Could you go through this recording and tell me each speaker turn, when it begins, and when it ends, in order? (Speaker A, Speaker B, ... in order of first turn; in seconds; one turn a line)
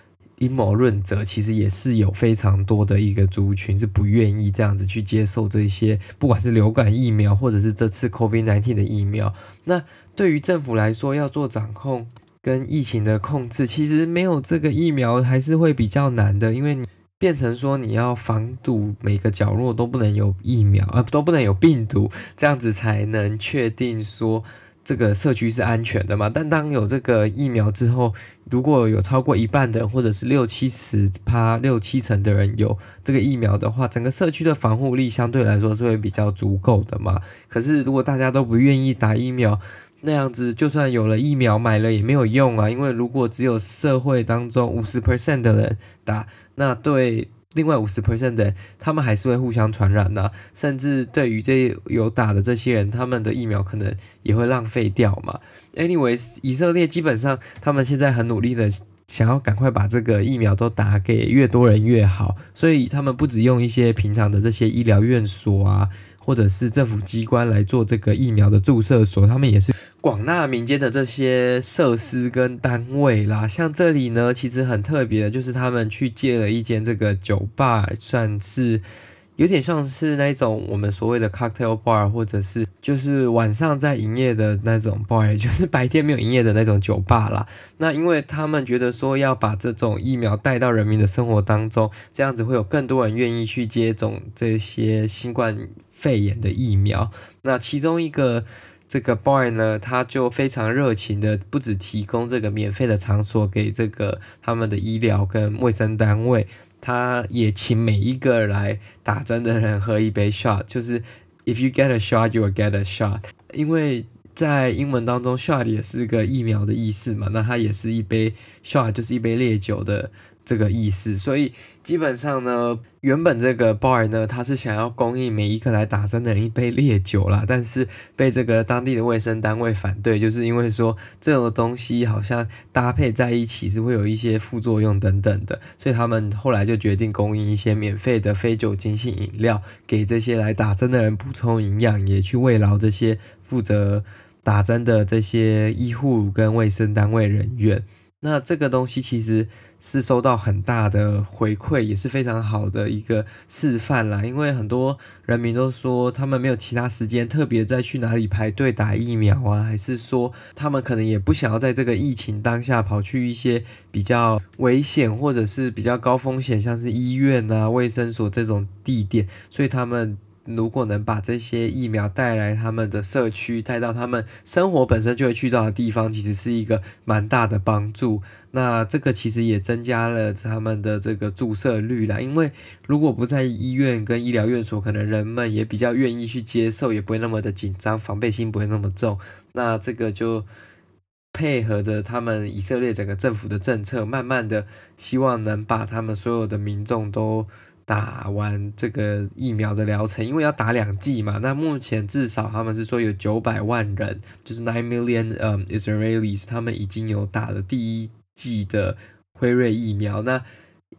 Speaker A: 0.4-78.8
Speaker A: 79.4-190.5
Speaker A: 191.3-210.4